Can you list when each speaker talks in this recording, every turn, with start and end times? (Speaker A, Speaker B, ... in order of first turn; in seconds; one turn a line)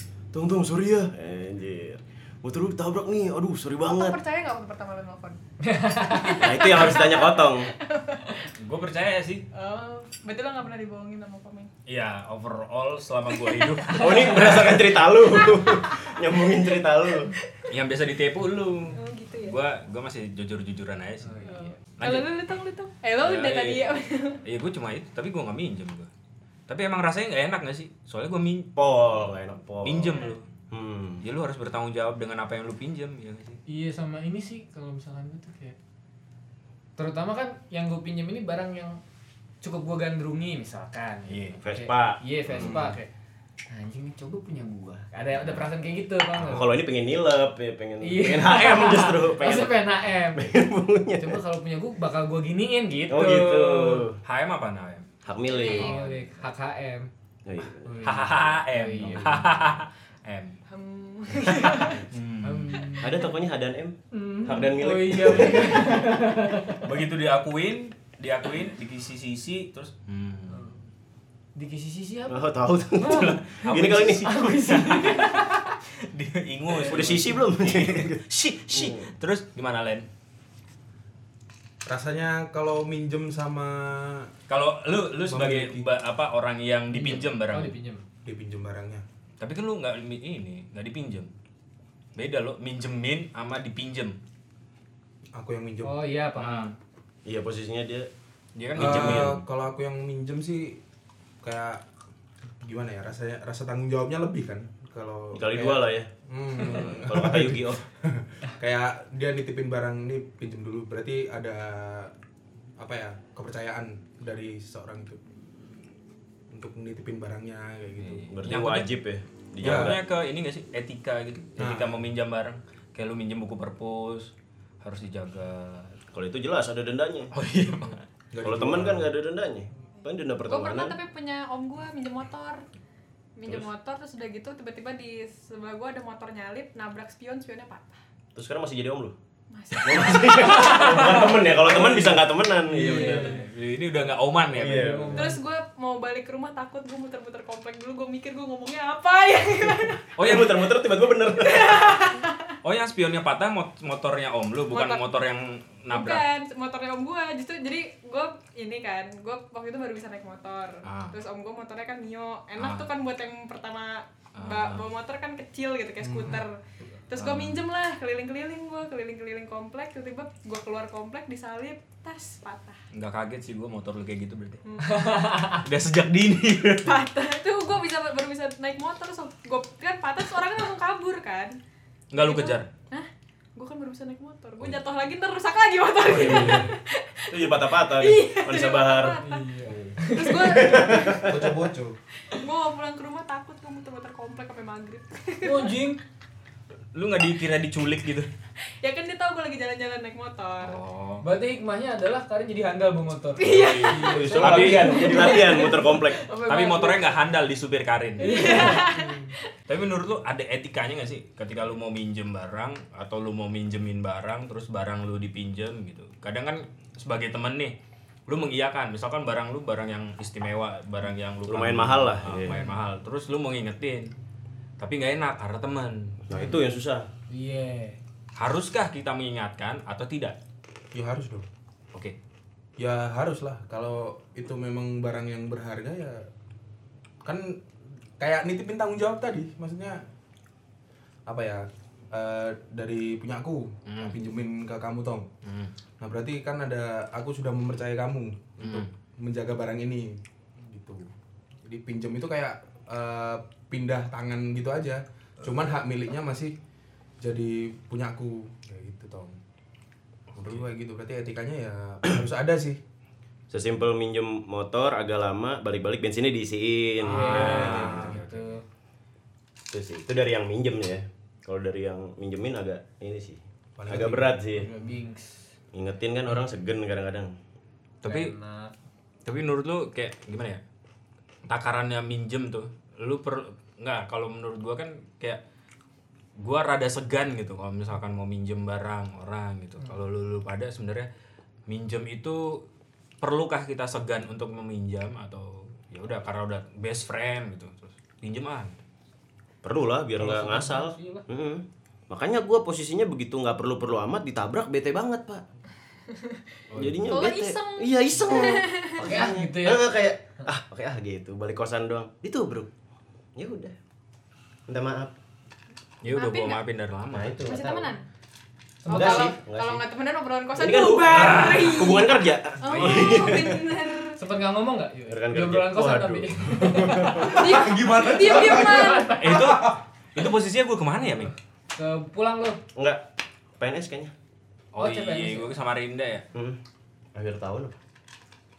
Speaker A: 0.3-4.2
Speaker B: 3.8-5.4
Speaker C: 5.6-6.5
Speaker B: 6.0-8.5
Speaker A: 6.4-7.7
Speaker D: 8.6-9.4
Speaker B: 9.5-11.7
Speaker D: 11.9-14.8
Speaker B: 13.3-14.1
Speaker A: 13.9-17.3
Speaker B: 14.9-17.7
Speaker D: 17.7-21.4
Speaker B: 18.9-19.6
Speaker C: 21.2-21.7
Speaker B: 21.4-24.4
Speaker D: 21.9-22.3
Speaker D: 23.2-26.1
Speaker D: 26.7-30.5
Speaker A: 28.8-31.2
Speaker D: 31.2-33.6
Speaker C: 33.7-35.8
Speaker C: 37.0-39.0
Speaker C: 39.6-43.1
Speaker D: 41.3-41.6
Speaker A: 41.6-42.2
Speaker E: 42.6-43.0
Speaker C: 43.7-46.8
Speaker D: 45.3-45.6
Speaker A: 46.4-51.4
Speaker C: 48.0-50.5
Speaker C: 51.2-53.8
Speaker A: 53.1-54.2
Speaker D: 53.9-55.1
Speaker A: 55.2-56.0
Speaker B: 55.5-56.0
Speaker C: 55.7-57.1
Speaker A: 57.5-57.9
Speaker C: 57.8-59.6
Speaker D: 58.0-60.5
Speaker B: 60.7-62.0
Speaker C: 61.4-63.4
Speaker D: 61.5-62.9
Speaker A: 63.0-66.0
Speaker C: 64.1-66.9
Speaker D: 66.8-70.6
Speaker C: 70.5-70.8
Speaker C: 71.5-72.5
Speaker A: 72.3-74.5
Speaker C: 73.0-75.6
Speaker D: 73.1-75.6
Speaker D: 76.1-80.1
Speaker A: 76.9-79.1
Speaker E: 81.8-84.3
Speaker D: 84.5-87.7
Speaker E: 85.3-85.9
Speaker C: 86.9-88.0
Speaker E: 88.2-89.0
Speaker D: 89.4-91.3
Speaker D: 92.2-94.2
Speaker E: 95.3-96.0
Speaker C: 95.8-96.8
Speaker D: 96.4-96.7
Speaker A: 97.2-98.1
Speaker D: 98.6-99.4
Speaker A: 98.8-99.4
Speaker E: 98.8-100.8
Speaker E: 101.4-101.8
Speaker E: 102.6-112.1
Speaker A: 105.3-106.1
Speaker A: 106.6-107.8
Speaker E: 112.8-115.2
Speaker E: 116.5-118.3
Speaker D: 118.0-118.9
Speaker A: 118.3-120.0
Speaker D: 119.6-126.0
Speaker E: 119.6-120.0
Speaker E: 121.6-122.0
Speaker A: 126.1-127.3
Speaker D: 127.3-128.0
Speaker E: 128.3-129.1
Speaker A: 128.4-131.0
Speaker B: 130.4-132.6
Speaker B: 133.4-138.0
Speaker A: 138.3-139.2
Speaker B: 139.5-141.3
Speaker A: 139.8-143.4
Speaker C: 140.9-141.4
Speaker D: 141.5-142.2
Speaker C: 142.6-143.5
Speaker B: 142.8-143.3
Speaker D: 143.3-145.0
Speaker A: 144.5-145.3
Speaker C: 144.5-145.4
Speaker B: 145.1-150.2
Speaker D: 150.1-150.7
Speaker A: 150.2-151.8
Speaker B: 151.4-152.6
Speaker D: 152.6-156.3
Speaker B: 154.7-155.0
Speaker B: 155.9-172.8
Speaker D: 160.9-161.2
Speaker D: 162.6-162.9
Speaker D: 164.4-164.8
Speaker E: 166.0-166.4
Speaker D: 167.2-167.6
Speaker D: 172.9-174.6
Speaker B: 174.7-175.4
Speaker C: 174.8-175.6
Speaker D: 175.5-177.0
Speaker B: 176.7-181.6
Speaker D: 182.1-182.7
Speaker B: 182.1-189.4
Speaker D: 186.0-186.7
Speaker A: 186.0-186.7
Speaker A: 187.3-189.8
Speaker C: 189.2-190.9
Speaker B: 190.1-191.3
Speaker A: 190.5-191.4
Speaker E: 191.2-192.0
Speaker B: 192.2-195.8
Speaker C: 195.4-196.0
Speaker D: 196.9-198.3
Speaker B: 198.6-200.8
Speaker D: 200.6-201.2
Speaker C: 201.2-207.2
Speaker B: 203.4-205.8
Speaker D: 203.4-204.9
Speaker A: 204.1-206.2
Speaker D: 206.5-208.8
Speaker B: 208.2-209.5
Speaker C: 208.2-209.3
Speaker D: 209.7-217.8
Speaker D: 218.3-224.1
Speaker A: 221.5-222.6
Speaker C: 222.5-222.8
Speaker D: 224.8-226.2
Speaker A: 226.2-227.1
Speaker C: 227.3-228.0
Speaker D: 228.4-230.4
Speaker E: 230.9-231.5
Speaker E: 232.8-236.3
Speaker E: 237.2-237.6
Speaker E: 238.2-240.1
Speaker E: 241.3-245.3
Speaker D: 243.9-244.2
Speaker D: 245.4-245.7
Speaker E: 246.0-251.1
Speaker D: 248.6-248.9
Speaker E: 251.6-256.6
Speaker E: 257.2-259.4
Speaker D: 260.3-260.7
Speaker E: 260.4-262.8
Speaker A: 263.5-268.1
Speaker D: 267.0-268.6
Speaker C: 267.0-268.6
Speaker E: 267.3-268.2
Speaker A: 269.7-274.7
Speaker E: 273.8-274.4
Speaker C: 274.5-275.5
Speaker A: 275.7-277.3
Speaker D: 278.0-278.3
Speaker C: 278.0-278.7
Speaker D: 279.3-280.6
Speaker D: 281.5-285.4
Speaker D: 286.4-291.1
Speaker D: 291.7-292.6
Speaker D: 293.2-298.8
Speaker A: 299.6-305.4
Speaker C: 300.2-301.3
Speaker B: 306.1-309.1
Speaker D: 306.7-307.1
Speaker A: 306.7-312.7
Speaker C: 309.0-310.0
Speaker A: 313.4-313.7
Speaker A: 314.7-315.2
Speaker D: 316.0-317.4
Speaker B: 316.1-316.6
Speaker A: 317.1-317.9
Speaker B: 317.4-318.0
Speaker C: 318.8-319.4
Speaker B: 318.9-324.2
Speaker A: 318.9-319.9
Speaker A: 320.6-323.7
Speaker D: 321.1-321.8
Speaker D: 322.6-323.6
Speaker C: 324.2-327.4
Speaker A: 325.1-327.3
Speaker E: 326.5-329.8
Speaker B: 327.3-329.3
Speaker C: 328.5-329.6
Speaker D: 329.2-331.3
Speaker C: 331.7-332.6
Speaker A: 332.8-333.0
Speaker A: 333.6-334.1
Speaker D: 334.7-336.3
Speaker C: 334.8-335.6
Speaker A: 336.3-336.6
Speaker A: 337.1-337.8